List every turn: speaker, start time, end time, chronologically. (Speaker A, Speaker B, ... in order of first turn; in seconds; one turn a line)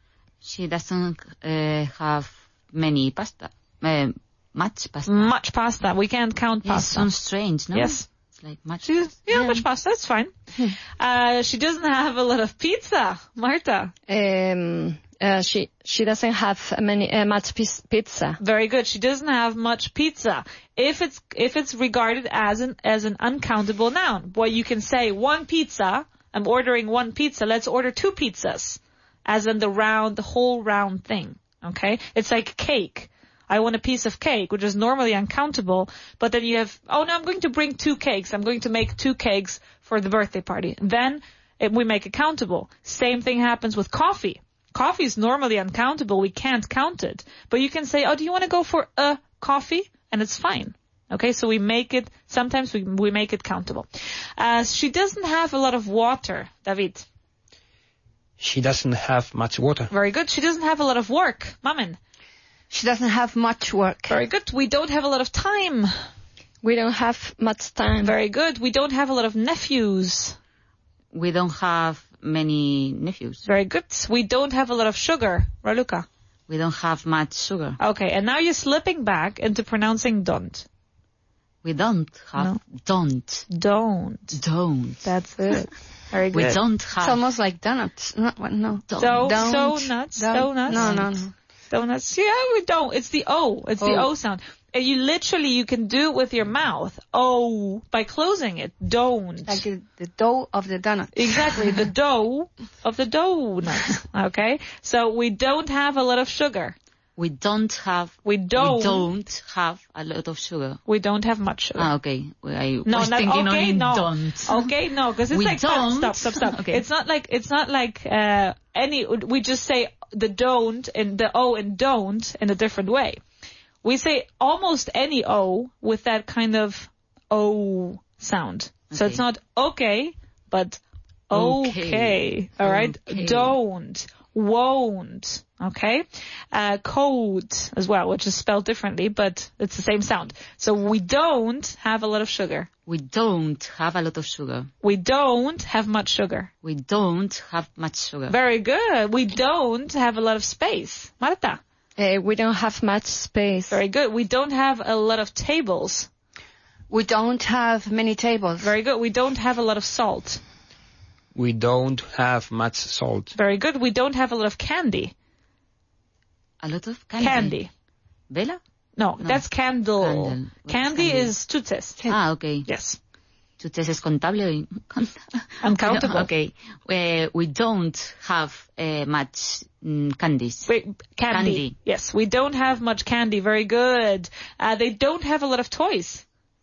Speaker A: 0.4-5.3
Speaker B: 5.1-7.1
Speaker A: 6.6-9.6
Speaker B: 7.7-8.1
Speaker B: 8.8-10.3
Speaker B: 11.0-13.9
Speaker C: 14.1-18.4
Speaker B: 18.4-57.0
Speaker D: 58.4-59.9
Speaker B: 59.9-62.0
Speaker E: 62.7-64.2
Speaker B: 64.1-65.9
Speaker C: 66.6-68.1
Speaker B: 68.0-70.4
Speaker A: 71.1-73.5
Speaker B: 73.4-76.0
Speaker A: 76.5-77.8
Speaker B: 77.8-80.7
Speaker A: 81.6-83.5
Speaker B: 83.5-84.4
Speaker A: 84.3-85.0
Speaker B: 85.0-86.6
Speaker A: 86.3-87.2
Speaker E: 86.4-91.3
Speaker A: 88.9-89.5
Speaker B: 89.0-90.9
Speaker A: 90.7-91.1
Speaker B: 91.7-99.6
Speaker E: 93.8-94.1
Speaker E: 99.5-101.8
Speaker B: 101.1-106.7
Speaker A: 107.2-110.8
Speaker B: 108.2-109.0
Speaker B: 110.9-111.9
Speaker A: 111.8-114.7
Speaker B: 112.8-123.2
Speaker A: 115.3-116.8
Speaker B: 123.8-142.7
Speaker A: 128.9-129.2
Speaker A: 131.3-133.6
Speaker A: 142.9-144.7
Speaker B: 144.8-146.5
Speaker A: 146.6-148.3
Speaker B: 148.3-151.6
Speaker C: 152.0-153.8
Speaker B: 153.7-156.1
Speaker E: 156.9-158.7
Speaker B: 158.6-160.4
Speaker D: 161.3-163.3
Speaker B: 163.3-165.1
Speaker A: 166.6-167.6
Speaker B: 167.2-167.7
Speaker A: 168.3-168.6
Speaker B: 169.0-171.9
Speaker A: 169.2-169.4
Speaker A: 170.0-171.3
Speaker A: 172.1-172.7
Speaker B: 172.6-173.0
Speaker A: 173.6-180.7
Speaker B: 175.6-176.3
Speaker B: 180.7-186.2
Speaker A: 181.3-181.7